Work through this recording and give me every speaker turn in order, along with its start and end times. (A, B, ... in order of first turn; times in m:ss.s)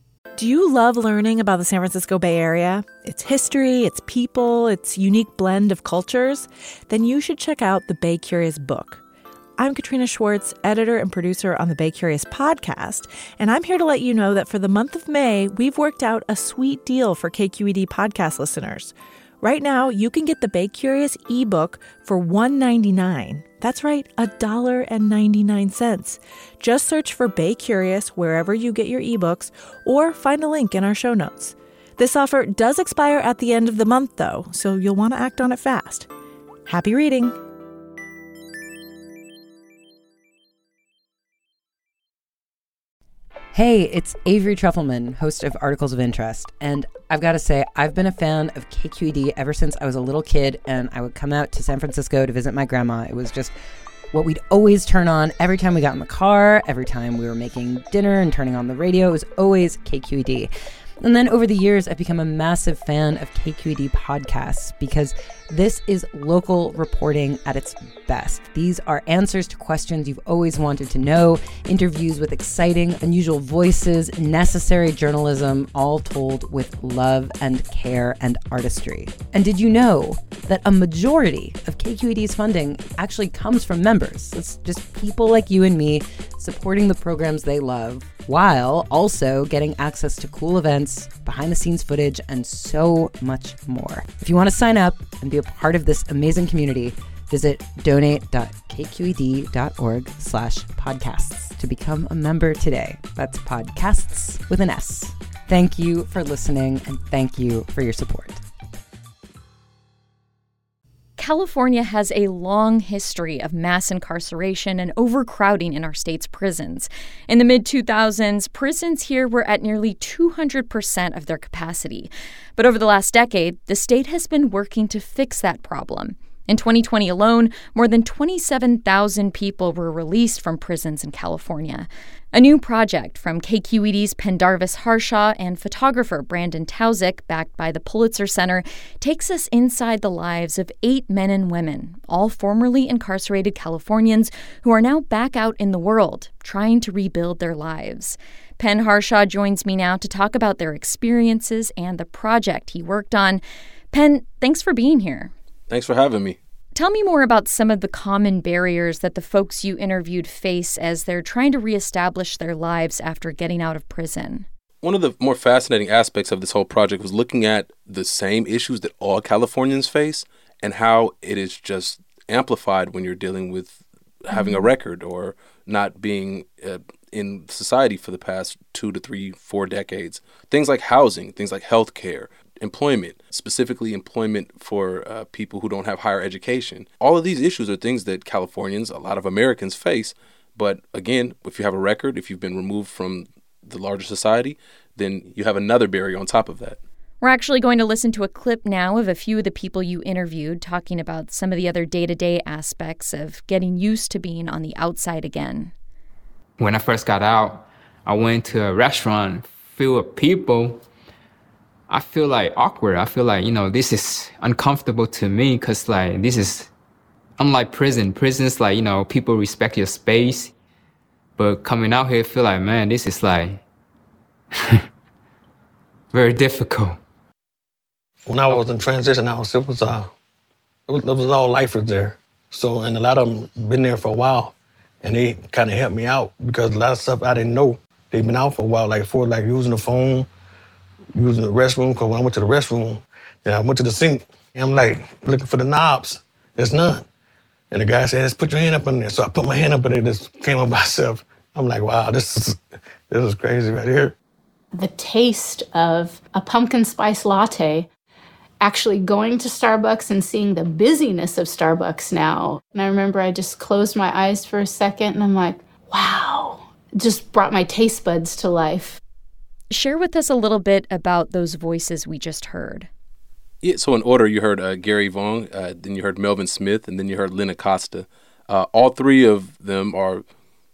0:00.4-0:09.0 A
0:09.6-0:36.1 A
0:36.7-0:37.4 A
0:43.5-0:53.5 B
0:54.1-1:00.5 B
1:01.0-1:48.4 B
1:51.2-2:35.3 C
2:35.7-2:36.4 D
2:36.8-2:44.5 C
2:44.8-3:16.8 D
3:17.2-3:25.7 C
3:26.6-3:27.6 E
3:28.1-3:30.7 E
3:31.9-3:36.7 E
3:37.4-3:40.5 E
3:41.4-3:43.6 E
3:46.1-3:46.9 E
3:48.3-3:50.1 F
3:50.9-4:00.3 F
4:01.2-4:07.0 F
4:07.7-4:12.6 F
4:13.1-4:14.1 F
4:14.7-4:17.9 G
4:18.6-4:29.0 G
4:29.7-4:32.9 C
4:33.6-4:40.2 D